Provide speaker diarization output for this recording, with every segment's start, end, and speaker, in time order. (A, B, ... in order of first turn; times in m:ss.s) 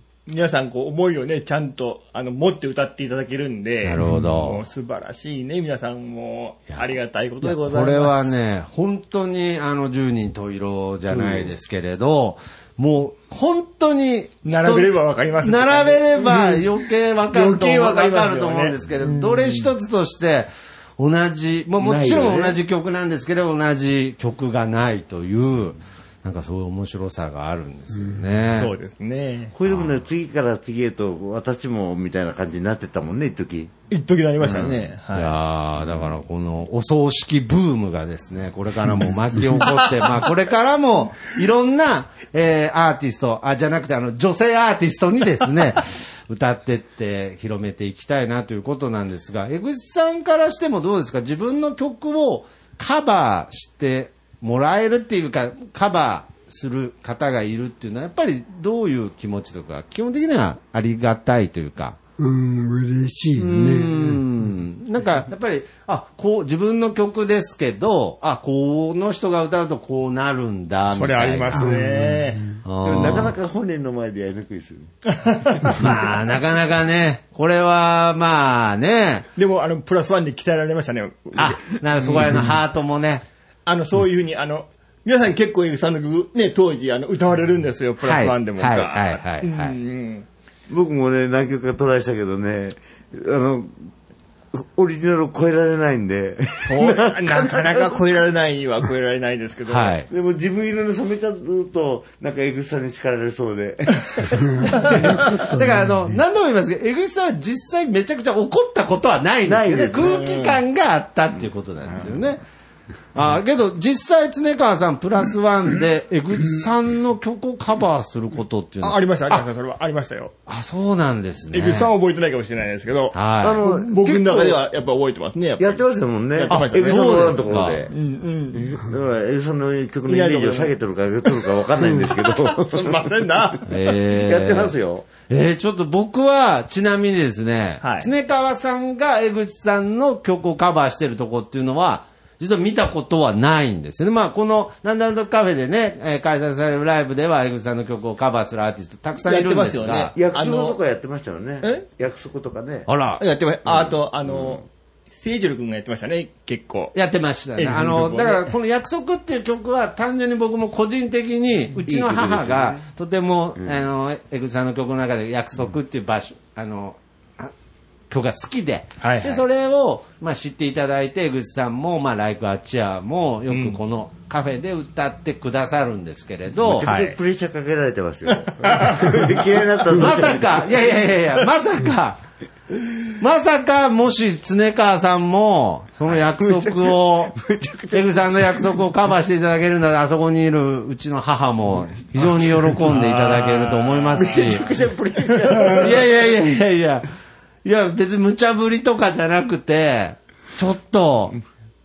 0:00.3-0:08.3 A
0:03.8-0:04.6 B
0:07.4-0:28.7 B
0:14.4-0:16.7 A
0:17.3-0:19.7 A
0:21.8-0:22.6 C
0:28.5-0:29.5 A
0:29.5-0:33.7 C
0:29.6-0:30.0 B
0:33.9-0:35.4 A
0:34.4-0:34.8 C
0:35.1-1:02.0 B
1:02.2-1:04.2 D
1:03.4-1:11.8 B
1:10.9-1:12.4 A
1:11.6-1:12.2 D
1:12.6-1:13.4 B
1:12.8-1:14.9 C
1:15.2-1:16.1 A
1:15.7-1:19.3 B
1:19.4-1:22.4 A
1:21.4-1:23.2 B
1:23.6-1:30.3 A
1:28.0-1:29.8 B
1:30.7-1:33.9 C
1:34.5-1:38.1 C
1:36.6-1:40.0 A
1:39.7-1:40.1 B
1:40.1-1:45.0 C
1:44.6-1:46.1 D
1:44.8-1:52.4 B
1:49.4-1:50.2 C
1:50.0-1:50.6 A
1:53.1-1:59.4 B
1:58.8-2:00.3 A
2:00.5-2:01.9 B
2:01.5-2:05.8 A
2:03.1-2:03.6 B
2:03.4-2:04.6 C
2:05.6-2:07.9 C
2:06.3-2:08.8 A
2:06.5-2:07.9 B
2:08.5-2:13.1 C
2:10.1-2:10.7 A
2:11.3-2:13.7 A
2:13.7-2:14.8 B
2:14.2-2:15.1 C
2:15.3-2:30.1 B
2:17.8-2:18.1 A
2:29.2-2:30.8 A
2:30.1-2:32.9 C
2:32.9-2:33.2 B
2:33.2-2:36.9 A
2:33.6-2:34.6 C
2:36.9-2:47.5 B
2:37.6-2:38.5 A
2:41.8-2:42.8 C
2:48.1-2:56.9 B
2:49.0-2:49.4 A
2:53.5-2:53.8 A
2:56.6-3:00.6 C
2:56.8-2:57.2 A
2:58.3-2:59.4 A
2:59.9-3:02.2 B
3:03.2-3:07.4 B
3:06.3-3:08.6 C
3:07.9-3:14.7 B
3:12.2-3:14.8 A
3:14.2-3:16.4 C
3:15.3-3:15.9 A
3:15.8-3:17.1 B
3:17.6-3:21.4 B